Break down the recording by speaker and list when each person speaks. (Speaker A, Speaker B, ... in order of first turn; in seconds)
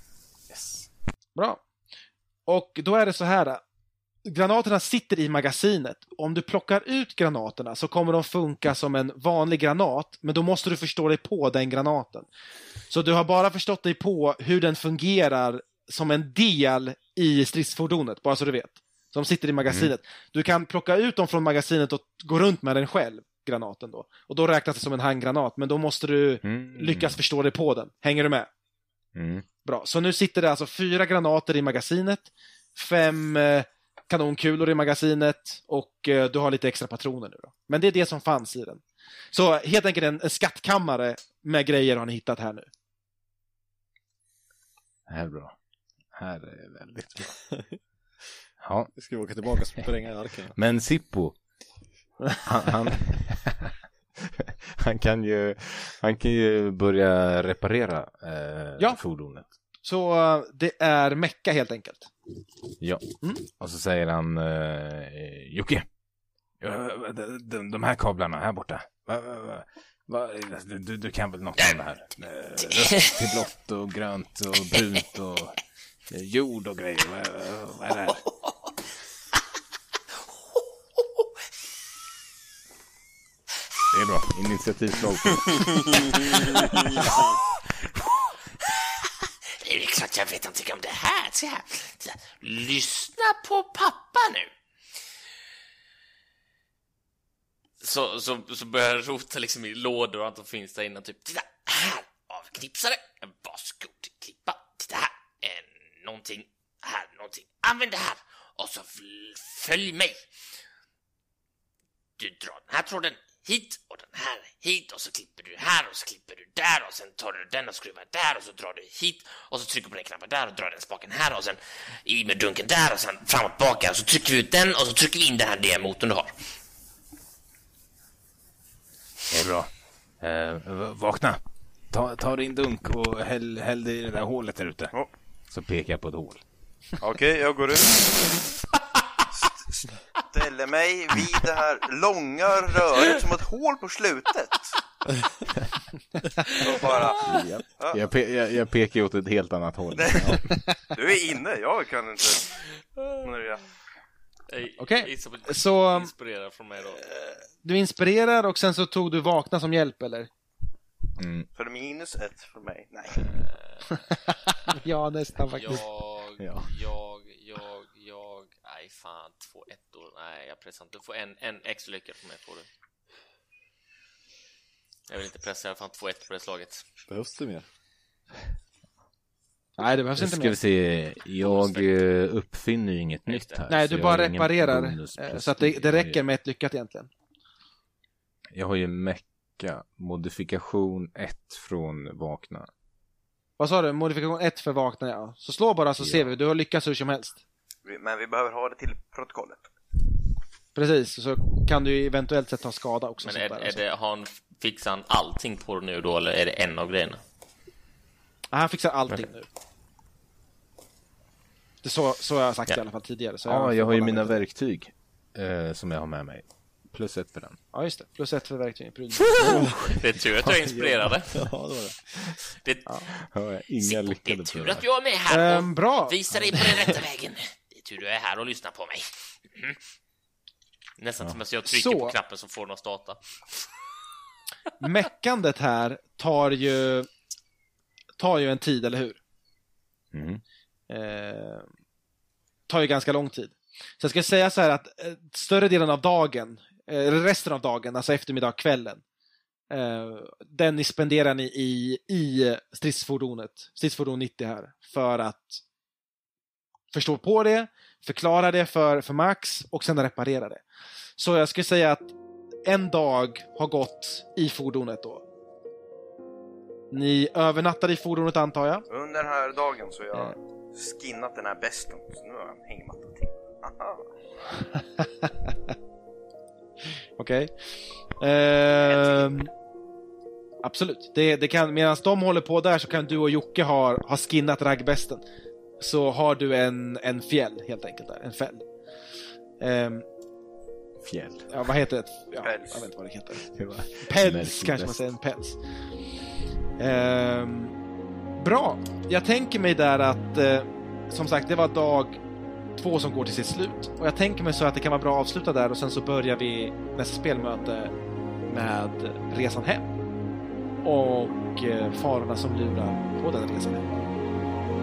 Speaker A: 0.5-0.9, 19.7-19.9, 26.4-27.2, 29.1-29.4, 45.1-45.5, 46.1-47.4, 48.6-48.9, 50.5-51.4, 52.4-59.5, 62.8-65.9, 66.6-75.6, 76.1-78.2, 83.9-86.0, 129.3-134.9, 135.5-136.4, 147.3-150.4, 161.2-161.5, 166.4-166.7, 180.2-186.2, 188.5-192.7, 196.0-196.3, 213.4-217.6, 223.2-224.8, 240.1-240.4, 291.0-291.5, 293.5-295.0
Speaker B: 1.4-1.6, 2.5-3.6, 4.2-12.3, 12.9-28.5, 29.6-42.7, 59.8-62.1, 147.2-147.6, 154.8-156.1, 157.1-160.3, 164.1-165.8, 179.8-180.6, 183.7-187.1, 193.6-197.4, 200.7-203.8, 208.5-209.5, 211.8-214.4, 217.7-219.6, 225.3-226.8, 231.7-232.2, 234.8-237.1, 238.2-239.2, 240.9-241.7, 242.7-249.0, 249.7-255.6, 256.9-260.6, 261.2-262.1, 262.6-265.2, 266.9-268.8, 275.0-275.5, 277.2-277.5, 278.2-279.5, 280.6-285.2, 285.8-288.7, 289.6-290.0, 291.5-293.5, 294.0-295.6, 296.8-297.7, 298.4-302.2, 302.8-307.9, 308.5-309.9, 310.8-313.9
Speaker C: 49.0-50.5, 177.1-177.7, 219.4-219.9, 220.5-222.0
Speaker D: 72.7-73.2, 86.1-94.5, 97.8-110.2, 112.2-126.3, 154.5-157.1, 163.2-164.0, 165.5-172.7, 175.1-176.8, 181.4-181.9, 183.3-183.6, 203.2-207.2, 219.4-221.3, 222.6-223.1, 223.8-229.8, 231.0-233.2
Speaker E: 85.5-87.3, 137.0-138.3, 139.3-144.8, 146.5-148.0, 149.9-150.4, 150.9-153.6, 161.5-163.4, 197.8-199.7, 268.9-274.1, 278.9-279.2, 292.4-292.9